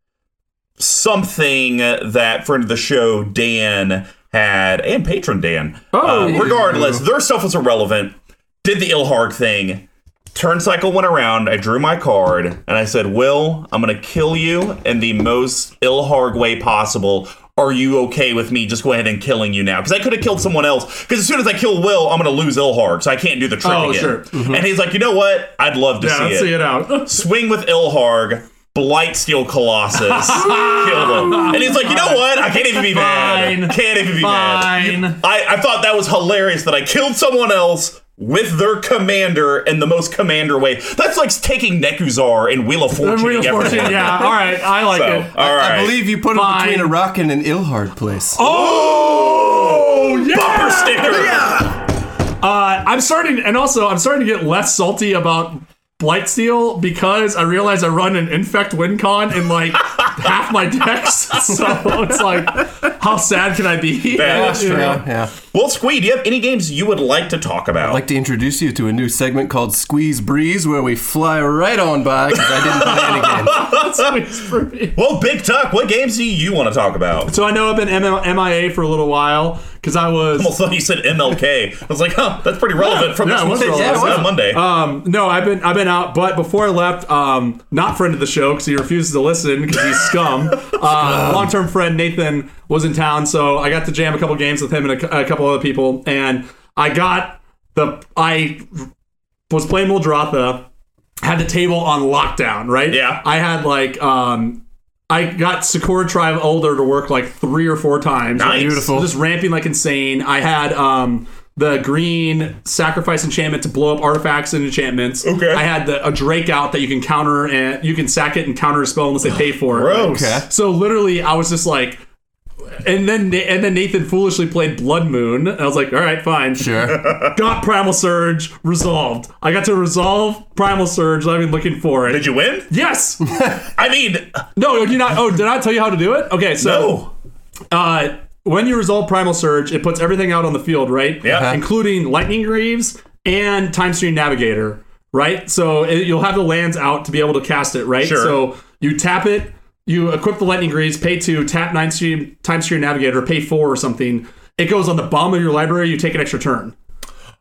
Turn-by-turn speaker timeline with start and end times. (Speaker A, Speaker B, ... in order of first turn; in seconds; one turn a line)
Speaker A: 0.8-46.0
Speaker B: 5.9-6.6
Speaker C: 6.2-7.0
Speaker B: 23.6-24.4
Speaker C: 24.3-24.6
Speaker B: 26.0-27.2
Speaker B: 30.0-35.2
Speaker B: 43.0-45.3
Speaker C: 45.4-48.5
Speaker B: 46.3-47.0
Speaker B: 48.4-51.7
Speaker A: 48.4-51.7
Speaker B: 52.4-65.0
Speaker A: 64.1-68.0
Speaker C: 64.2-65.3
Speaker C: 67.8-73.6
Speaker A: 72.3-74.2
Speaker B: 72.8-75.0
Speaker A: 75.0-77.3
Speaker B: 77.3-80.5
Speaker A: 80.4-84.6
Speaker B: 82.8-98.9
Speaker C: 83.5-84.3
Speaker C: 90.9-91.5
Speaker B: 99.5-100.7
Speaker B: 101.2-122.0
Speaker A: 102.9-103.2
Speaker A: 108.4-108.9
Speaker C: 108.5-109.2
Speaker A: 115.2-115.7
Speaker A: 119.7-120.4
Speaker C: 119.9-120.5
Speaker B: 122.8-133.2
Speaker C: 126.6-127.0
Speaker A: 127.0-127.4
Speaker A: 132.1-132.7
Speaker C: 133.3-133.6
Speaker A: 133.8-134.4
Speaker B: 134.6-137.0
Speaker A: 136.6-137.1
Speaker B: 137.7-156.8
Speaker A: 141.2-141.6
Speaker C: 141.3-141.6
Speaker A: 148.0-148.4